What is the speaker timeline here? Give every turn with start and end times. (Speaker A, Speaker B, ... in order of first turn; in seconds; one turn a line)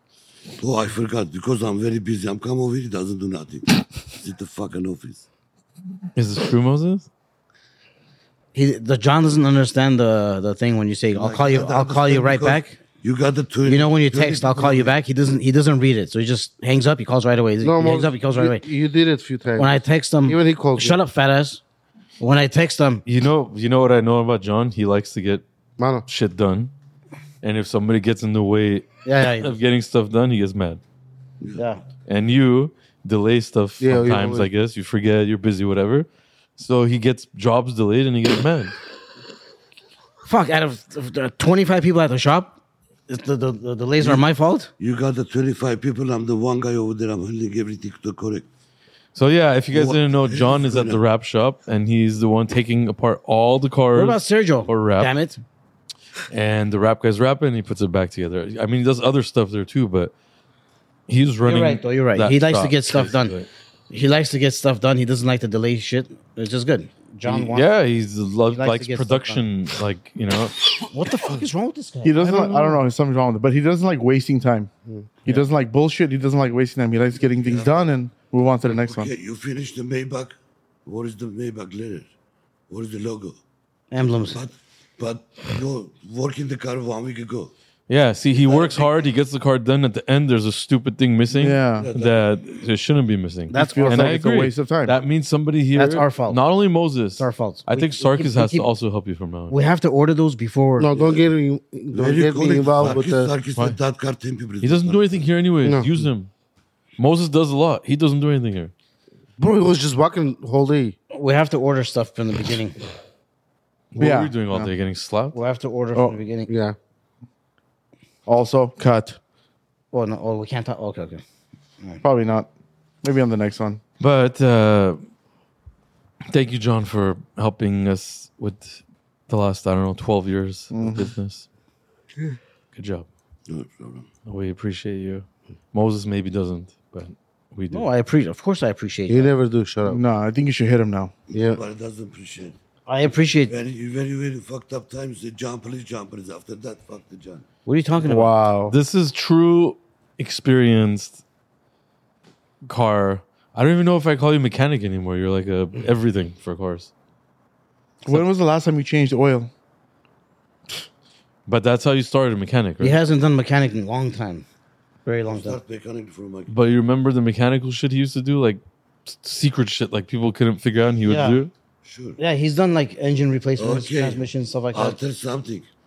Speaker A: 0.6-5.2
Speaker B: 6.2-7.1
Speaker C: 8.5-12.8
Speaker A: 11.1-14.9
Speaker C: 13.7-18.7
Speaker D: 17.6-21.0
Speaker C: 19.6-21.6
Speaker C: 22.2-23.0
Speaker B: 23.1-25.4
Speaker D: 25.8-26.1
Speaker B: 26.1-26.7
Speaker B: 27.4-30.8
Speaker C: 29.1-29.6
Speaker C: 31.6-31.8
Speaker B: 32.1-38.8
Speaker D: 33.8-34.5
Speaker C: 40.2-44.7
Speaker A: 44.8-48.5
Speaker B: 49.1-55.1
Speaker A: 49.7-51.0
Speaker C: 53.9-55.4
Speaker B: 56.3-60.1
Speaker B: 61.1-63.5
Speaker C: 61.4-63.4
Speaker C: 63.9-67.7
Speaker B: 67.2-70.6
Speaker C: 68.5-69.4
Speaker C: 70.9-72.6
Speaker E: 72.0-74.7
Speaker D: 74.9-75.1
Speaker E: 75.2-79.1
Speaker A: 77.4-77.7
Speaker A: 78.7-80.3
Speaker A: 80.9-82.1
Speaker A: 82.7-83.4
Speaker C: 83.9-84.4
Speaker A: 84.0-87.5
Speaker B: 87.9-99.6
Speaker A: 88.3-89.0
Speaker E: 91.3-91.9
Speaker A: 91.8-92.2
Speaker C: 93.5-94.2
Speaker E: 93.5-95.0
Speaker C: 95.8-96.4
Speaker C: 97.2-98.7
Speaker C: 99.5-100.9
Speaker D: 100.8-103.3
Speaker A: 101.0-101.2
Speaker A: 101.9-105.2
Speaker B: 104.6-106.3
Speaker D: 105.6-106.1
Speaker B: 107.0-108.7
Speaker D: 109.4-111.0
Speaker C: 111.1-112.8
Speaker B: 113.9-115.4
Speaker E: 114.0-114.7
Speaker C: 115.3-116.5
Speaker E: 115.9-116.2
Speaker D: 116.5-116.8
Speaker E: 118.3-119.2
Speaker C: 119.9-121.2
Speaker E: 122.0-122.5
Speaker E: 123.0-123.8
Speaker B: 124.0-125.0
Speaker B: 126.3-131.5
Speaker E: 130.7-131.1
Speaker B: 132.7-133.1
Speaker A: 133.5-134.1
Speaker B: 134.3-137.9
Speaker C: 137.7-139.3
Speaker D: 139.1-140.0
Speaker E: 139.9-141.2
Speaker A: 141.3-142.6
Speaker D: 141.3-141.6
Speaker C: 142.9-143.6
Speaker A: 143.5-147.4
Speaker C: 147.7-148.3
Speaker E: 148.0-148.8
Speaker B: 148.7-151.2
Speaker B: 152.6-156.9
Speaker E: 158.0-159.5
Speaker B: 161.5-163.0
Speaker C: 162.8-164.4
Speaker C: 165.1-165.6
Speaker A: 165.3-166.6
Speaker B: 166.5-171.5
Speaker C: 171.0-171.4
Speaker A: 171.8-172.2
Speaker C: 172.2-175.0
Speaker A: 173.6-175.7